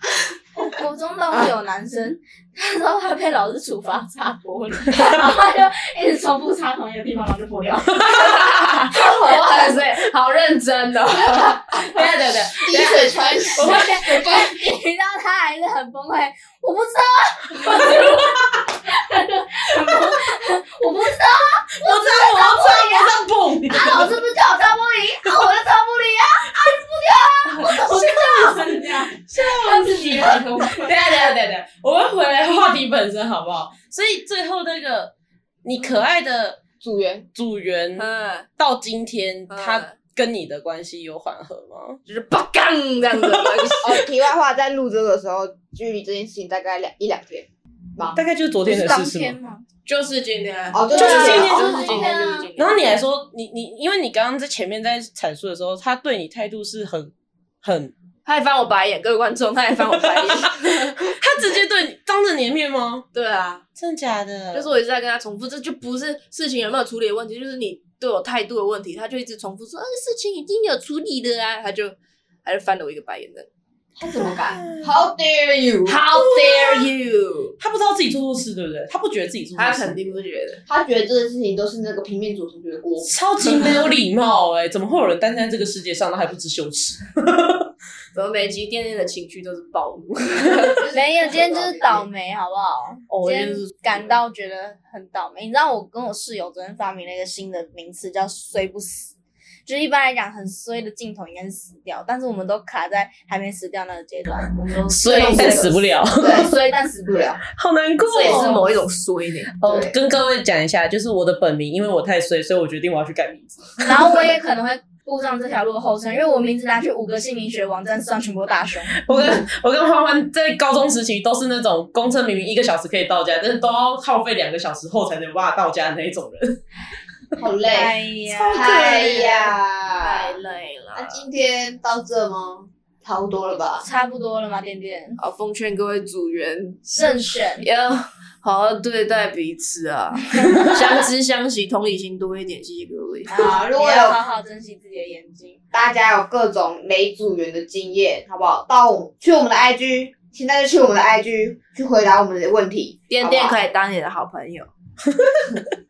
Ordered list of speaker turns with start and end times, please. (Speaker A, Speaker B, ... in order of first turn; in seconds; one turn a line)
Speaker A: 0.6-8.2
Speaker B: 7.9-14.0
Speaker C: 12.6-14.4
Speaker A: 13.6-31.0
Speaker D: 21.7-24.1
Speaker D: 27.6-36.6
Speaker C: 36.8-37.3
Speaker D: 37.4-42.0
Speaker B: 38.0-38.5
Speaker B: 39.5-39.9
Speaker B: 42.0-44.0
Speaker D: 43.4-43.8
Speaker C: 43.8-48.2
Speaker D: 48.1-49.4
Speaker A: 48.6-49.6
Speaker B: 49.9-53.0
Speaker C: 50.7-52.0
Speaker A: 50.9-52.5
Speaker D: 50.9-57.9
Speaker B: 58.2-61.0
Speaker D: 60.0-60.3
Speaker D: 61.0-63.0
Speaker B: 63.1-63.6
Speaker D: 63.8-64.7
Speaker B: 64.5-73.5
Speaker C: 74.0-76.0
Speaker D: 74.2-74.9
Speaker B: 75.9-77.5
Speaker D: 76.1-76.9
Speaker D: 77.6-80.1
Speaker B: 79.5-80.6
Speaker C: 80.7-83.1
Speaker D: 83.0-87.7
Speaker B: 88.1-90.8
Speaker C: 90.7-92.1
Speaker A: 90.9-99.1
Speaker B: 93.1-94.1
Speaker A: 99.6-105.7
Speaker B: 104.6-105.8
Speaker D: 104.9-106.5
Speaker C: 105.1-105.7
Speaker C: 106.2-107.4
Speaker A: 106.3-107.3
Speaker D: 107.5-108.7
Speaker B: 108.0-109.5
Speaker A: 108.2-108.6
Speaker D: 109.5-114.2
Speaker C: 109.6-110.0
Speaker A: 113.8-119.0
Speaker D: 119.0-126.6
Speaker C: 127.4-127.9
Speaker A: 127.7-129.3
Speaker B: 128.4-129.5
Speaker C: 128.5-130.4
Speaker B: 130.0-131.2
Speaker C: 130.9-133.8
Speaker A: 133.8-135.2
Speaker B: 135.2-143.4
Speaker A: 136.9-137.6
Speaker A: 143.3-145.6
Speaker C: 143.4-144.2
Speaker C: 145.7-153.6
Speaker B: 153.1-154.7